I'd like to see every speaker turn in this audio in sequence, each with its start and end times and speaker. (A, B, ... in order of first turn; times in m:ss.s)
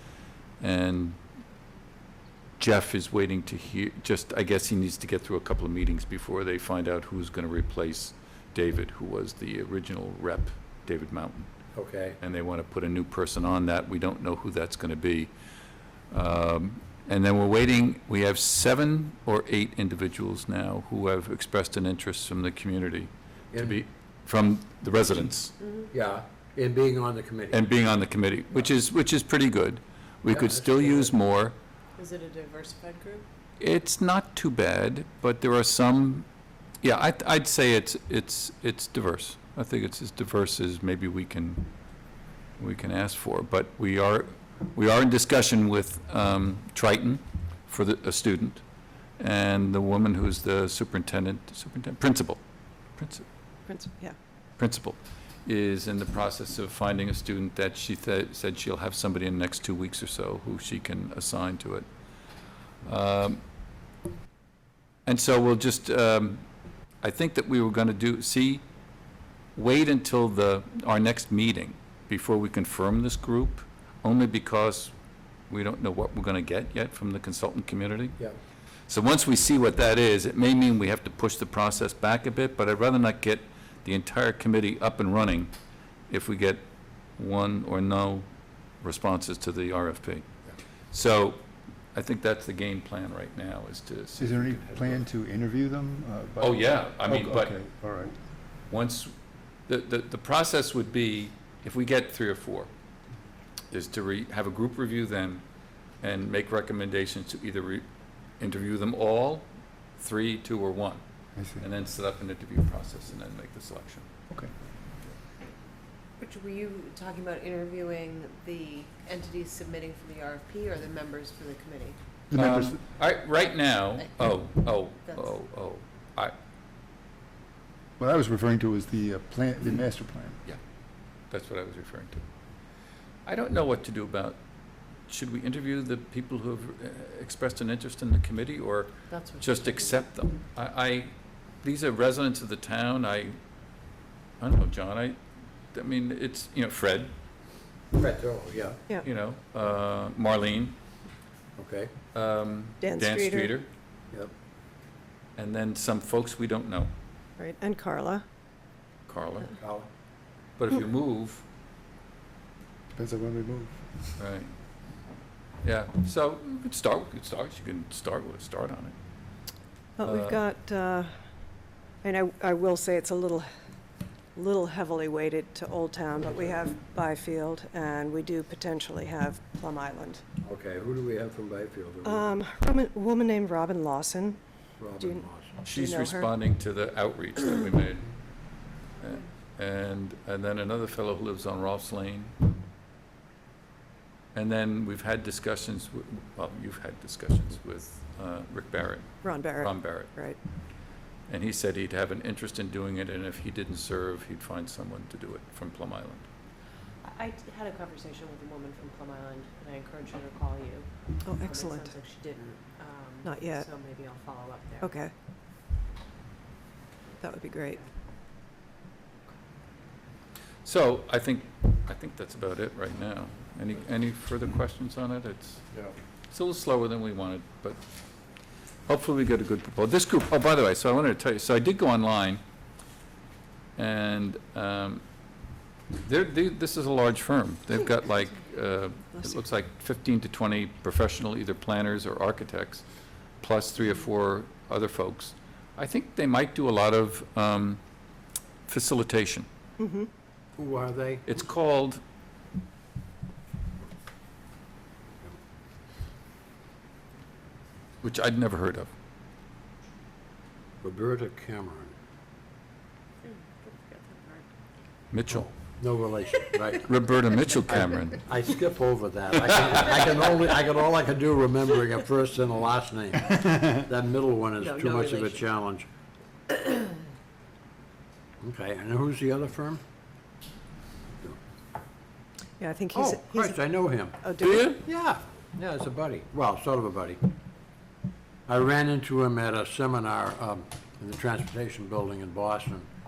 0:00.6-0:01.2 A
0:02.6-0:11.5 A
0:11.7-0:12.2 B
0:12.2-0:15.3 A
0:16.1-0:25.6 A
0:23.5-0:23.8 B
0:25.6-0:25.9 C
0:25.9-0:27.6 B
0:27.5-0:31.6 A
0:30.3-0:31.1 B
0:32.0-0:33.2 C
0:33.6-0:36.3 A
0:36.8-0:41.7 A
0:42.6-0:48.6 A
0:49.2-0:52.4 A
0:53.0-0:53.2 A
0:53.7-0:54.2 D
0:54.6-1:01.9 A
1:02.8-1:03.4 A
1:05.1-1:06.4 A
1:07.0-1:08.6 A
1:09.6-1:14.9 A
1:15.5-1:18.2 A
1:18.9-1:25.5 A
1:26.1-1:26.6 A
1:27.2-1:28.3 A
1:28.8-1:30.3 A
1:30.9-1:31.4 A
1:31.9-1:35.0 A
1:34.2-1:38.2 E
1:36.4-1:37.6 A
1:38.7-1:39.1 A
1:39.7-1:42.7 A
1:43.7-1:45.4 A
1:46.0-1:47.9 A
1:48.4-1:51.0 A
1:51.4-1:51.6 E
1:51.6-1:54.1 A
1:56.2-2:02.0 C
2:02.3-2:02.8 E
2:02.3-2:06.3 A
2:05.1-2:05.3 C
2:08.0-2:10.4 E
2:11.3-2:12.3 A
2:13.2-2:14.4 A
2:15.1-2:23.4 A
2:19.1-2:20.0 C
2:24.4-2:25.2 A
2:25.7-2:27.2 A
2:28.0-2:28.8 B
2:29.0-2:30.8 A
2:31.6-2:31.9 B
2:32.1-2:33.7 A
2:32.8-2:33.5 D
2:35.4-2:36.9 A
2:37.4-2:38.2 D
2:39.1-2:39.6 A
2:39.6-2:39.9 B
2:40.6-2:41.4 A
2:42.9-2:44.2 E
2:44.2-2:44.5 A
2:45.6-2:49.0 A
2:50.0-2:51.1 D
2:50.0-2:50.4 A
2:52.0-2:53.5 D
2:54.4-3:00.2 D
3:00.4-3:02.3 B
3:02.0-3:04.4 D
3:04.8-3:05.6 B
3:05.0-3:06.3 D
3:05.6-3:08.1 A
3:09.0-3:12.4 A
3:14.3-3:20.2 A
3:19.2-3:20.4 D
3:21.3-3:26.3 A
3:27.0-3:34.9 C
3:31.2-3:31.9 D
3:33.2-3:33.7 D
3:34.8-3:35.1 D
3:37.2-3:37.8 D
3:40.6-3:45.6 A
3:46.3-3:47.8 A
3:48.9-3:52.4 A
3:53.8-3:55.0 A
3:56.0-4:02.9 A
4:03.4-4:07.8 A
4:08.7-4:09.5 A
4:09.8-4:10.1 D
4:10.6-4:11.2 B
4:11.3-4:12.0 A
4:18.0-4:18.9 A
4:20.8-4:21.9 B
4:23.2-4:24.5 C
4:25.1-4:25.5 A
4:25.3-4:26.9 B
4:26.3-4:26.8 C
4:26.8-4:28.3 A
4:27.7-4:35.9 B
4:34.6-4:35.5 C
4:36.5-4:36.8 C
4:38.4-4:39.8 B
4:42.6-4:44.8 D
4:42.9-4:44.2 B
4:44.4-4:44.8 A
4:44.8-4:47.2 B
4:48.5-4:52.9 B